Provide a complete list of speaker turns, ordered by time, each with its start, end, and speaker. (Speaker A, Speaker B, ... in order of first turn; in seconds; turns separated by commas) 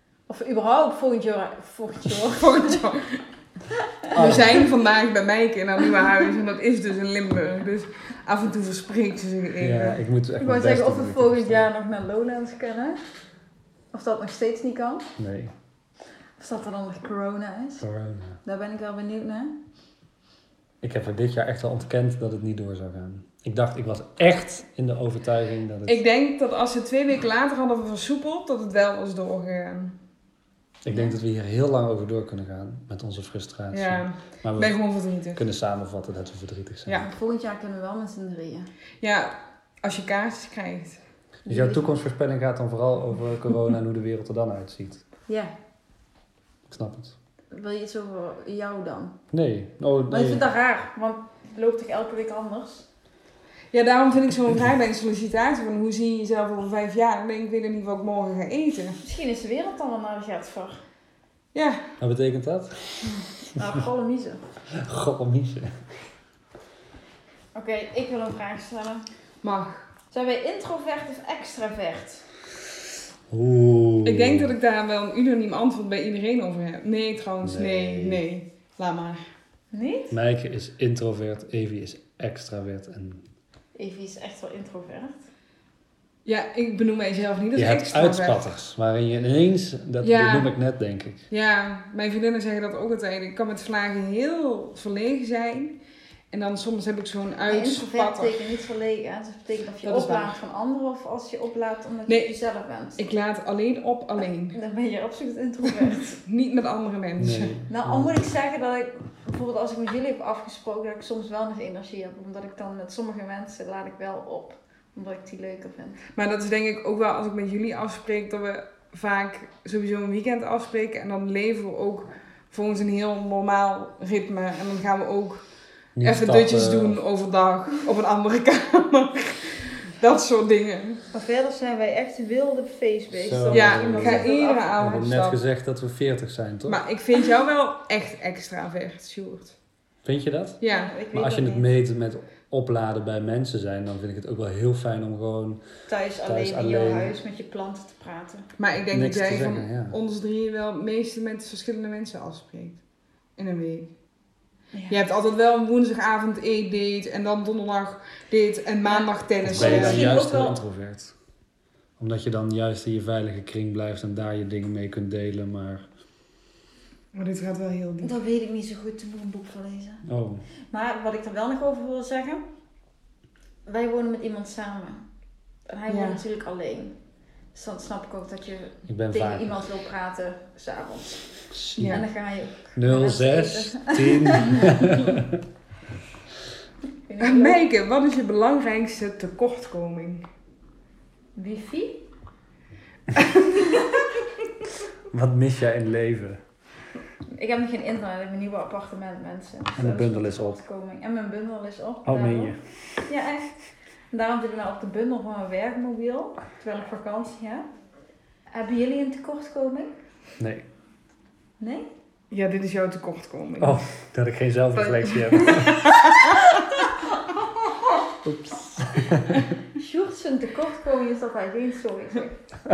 Speaker A: 0.3-2.8, Speaker B: 2.2-3.2, Speaker B: 4.1-10.0, Speaker C: 4.1-4.7, Speaker C: 9.6-11.7, Speaker A: 10.4-13.0, Speaker A: 13.9-15.1, Speaker C: 15.2-15.5, Speaker A: 16.4-17.9, Speaker C: 17.8-18.4, Speaker A: 18.4-19.6, Speaker C: 20.8-26.0, Speaker B: 25.9-30.0, Speaker C: 30.8-34.8, Speaker A: 30.9-31.1, Speaker B: 33.7-35.4, Speaker C: 35.4-37.1, Speaker A: 37.0-38.7, Speaker B: 39.0-41.0, Speaker A: 41.5-41.9, Speaker C: 41.5-45.0, Speaker C: 46.7-47.1, Speaker A: 47.5-49.2, Speaker C: 49.3-50.4, Speaker A: 50.1-52.9, Speaker B: 53.7-59.0, Speaker A: 59.0-60.8, Speaker B: 61.5-61.8, Speaker C: 62.0-63.2, Speaker A: 63.0-64.4, Speaker C: 64.7-65.8, Speaker A: 67.5-69.1, Speaker B: 69.4-69.9, Speaker A: 70.1-72.3, Speaker C: 73.3-74.5, Speaker B: 74.0-79.2, Speaker C: 77.4-78.2, Speaker A: 79.7-80.2, Speaker C: 80.1-83.2, Speaker A: 83.8-85.2, Speaker B: 86.2-88.4, Speaker C: 87.5-91.2, Speaker B: 90.0-90.5, Speaker B: 91.3-95.8, Speaker B: 96.3-98.4, Speaker A: 97.5-103.0, Speaker B: 99.8-100.4, Speaker B: 102.1-102.3, Speaker B: 103.0-104.6, Speaker A: 104.5-106.2, Speaker B: 105.8-107.6, Speaker C: 107.2-108.2, Speaker A: 107.7-116.0, Speaker B: 116.2-125.4, Speaker C: 126.0-127.0, Speaker B: 126.0-131.0, Speaker A: 131.1-134.7, Speaker C: 133.1-136.8, Speaker B: 133.5-135.4, Speaker B: 136.7-139.6, Speaker C: 140.1-145.6, Speaker B: 140.6-140.9, Speaker A: 140.7-141.7, Speaker A: 145.9-148.5, Speaker C: 146.3-147.2, Speaker B: 148.6-152.8, Speaker C: 148.9-150.0, Speaker B: 153.4-153.9, Speaker A: 154.7-155.0, Speaker B: 154.9-160.2, Speaker A: 158.9-160.6, Speaker C: 159.4-161.1, Speaker C: 162.0-165.8, Speaker B: 167.1-168.1, Speaker A: 168.0-170.1, Speaker C: 170.1-170.4, Speaker A: 170.7-172.4, Speaker A: 173.7-175.1, Speaker A: 175.7-177.0, Speaker B: 175.9-176.2, Speaker A: 177.5-185.1, Speaker C: 178.9-179.6, Speaker C: 181.5-182.0, Speaker B: 181.8-182.0, Speaker C: 182.8-185.4, Speaker A: 187.1-187.6, Speaker B: 187.2-190.3, Speaker A: 191.3-192.1, Speaker C: 195.1-196.4, Speaker A: 197.3-203.6, Speaker C: 199.8-200.6, Speaker C: 202.1-202.6, Speaker A: 204.1-207.7, Speaker A: 208.5-210.0, Speaker C: 210.4-210.7, Speaker A: 211.6-211.9, Speaker B: 212.3-213.8, Speaker C: 213.6-215.9, Speaker B: 214.9-216.5, Speaker A: 215.4-216.4, Speaker C: 218.2-219.4, Speaker A: 219.7-222.4